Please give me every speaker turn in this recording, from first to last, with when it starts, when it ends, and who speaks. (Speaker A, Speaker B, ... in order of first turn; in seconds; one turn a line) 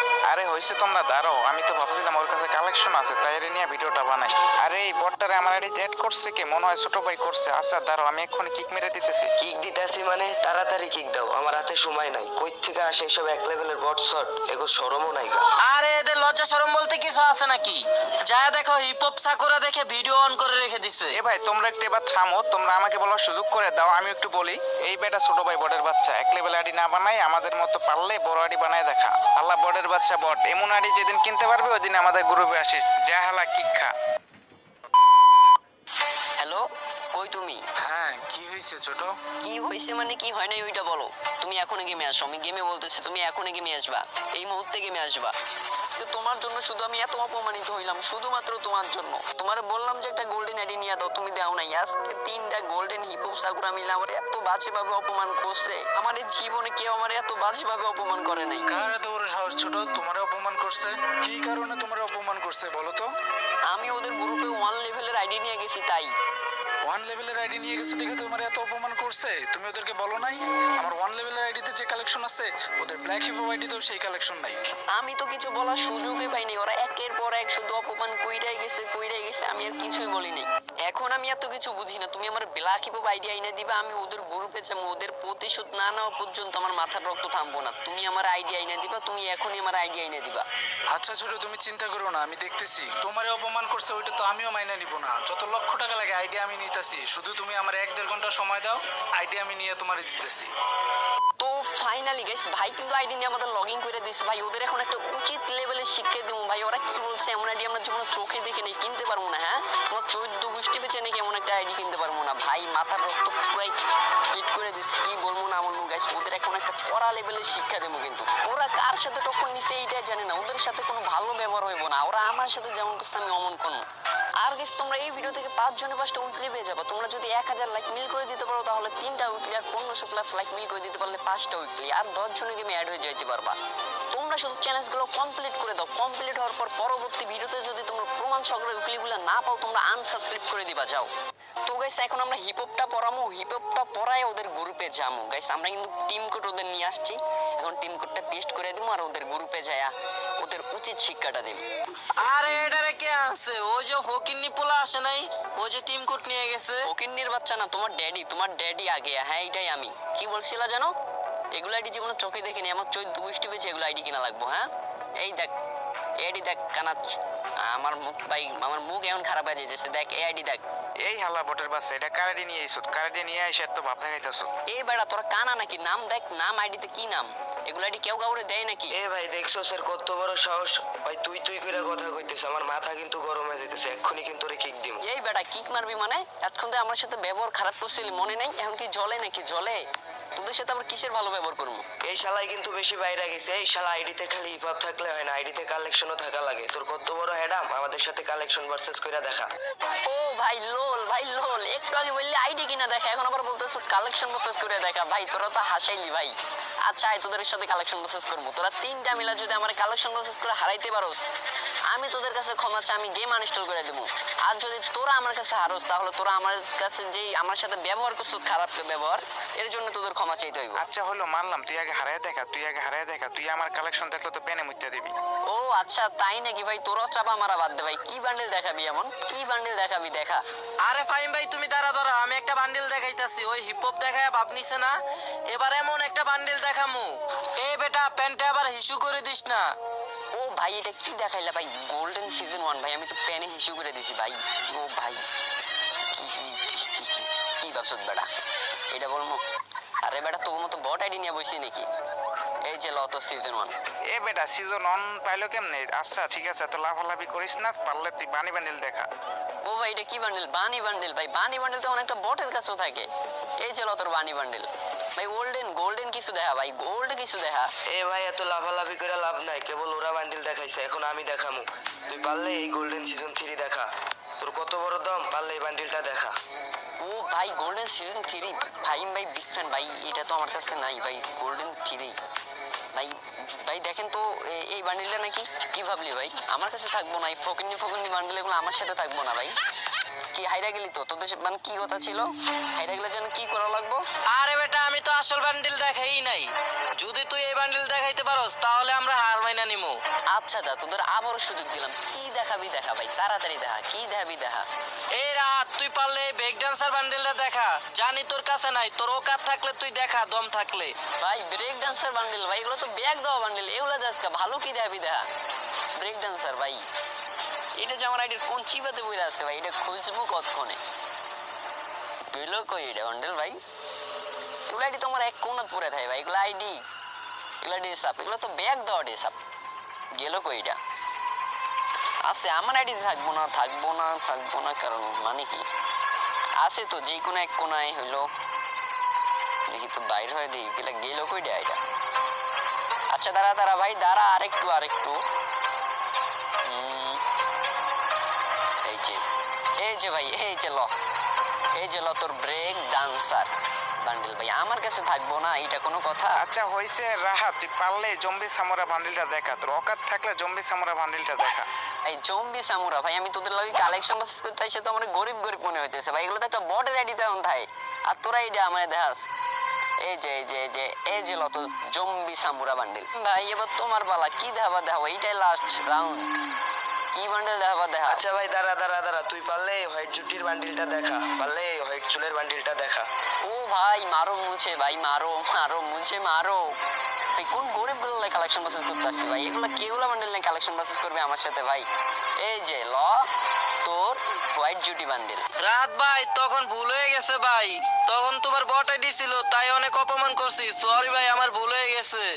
Speaker A: 0.3-9.3
Speaker B: 9.4-15.4
Speaker C: 15.7-21.2
Speaker A: 21.2-33.9
Speaker D: 36.4-37.6
Speaker E: 37.8-39.2
Speaker D: 39.4-58.7
Speaker E: 58.7-63.1
Speaker D: 63.7-66.1
Speaker E: 66.8-74.6
Speaker D: 74.9-90.5
Speaker E: 90.9-100.5
Speaker D: 101.4-113.8
Speaker D: 114.3-123.8
Speaker D: 124.4-133.6
Speaker D: 134.1-141.1
Speaker D: 141.7-151.6
Speaker C: 152.2-156.8
Speaker D: 156.9-160.9
Speaker D: 161.5-165.5
Speaker D: 166.2-170.6
Speaker A: 171.0-174.5
Speaker D: 174.7-178.9
Speaker B: 178.9-185.0
Speaker D: 185.0-189.8
Speaker D: 190.3-191.8
Speaker B: 192.0-199.5
Speaker D: 200.1-206.3
Speaker D: 206.9-211.2
Speaker D: 211.9-220.8
Speaker A: 220.8-225.2
Speaker D: 225.5-230.4
Speaker C: 230.8-234.9
Speaker C: 235.5-239.6
Speaker D: 240.3-245.2
Speaker D: 246.1-248.3
Speaker D: 248.9-249.4
Speaker D: 250.0-251.9
Speaker D: 252.6-253.7
Speaker A: 254.1-259.1
Speaker D: 259.6-263.1
Speaker D: 263.6-267.7
Speaker B: 267.9-273.9
Speaker B: 274.4-276.3
Speaker D: 277.0-282.1
Speaker D: 282.9-289.5
Speaker D: 290.3-294.0
Speaker C: 294.3-300.0
Speaker D: 300.3-304.6
Speaker C: 305.1-310.9
Speaker D: 311.2-315.3
Speaker D: 316.0-316.9
Speaker D: 317.8-320.8
Speaker D: 322.3-323.6
Speaker D: 324.7-326.8
Speaker D: 327.6-329.4
Speaker D: 330.1-330.8
Speaker D: 332.2-335.6
Speaker D: 336.6-338.3
Speaker D: 339.7-341.8
Speaker D: 343.1-345.2
Speaker D: 346.6-347.2
Speaker D: 348.8-349.2
Speaker D: 349.8-350.9
Speaker D: 351.8-353.5
Speaker D: 354.0-356.4
Speaker A: 356.4-361.7
Speaker D: 362.0-369.3
Speaker D: 370.0-376.4
Speaker D: 377.1-378.2
Speaker B: 378.1-383.1
Speaker D: 383.4-386.6
Speaker D: 387.4-391.9
Speaker D: 392.4-393.3
Speaker D: 393.8-395.4
Speaker C: 395.6-402.3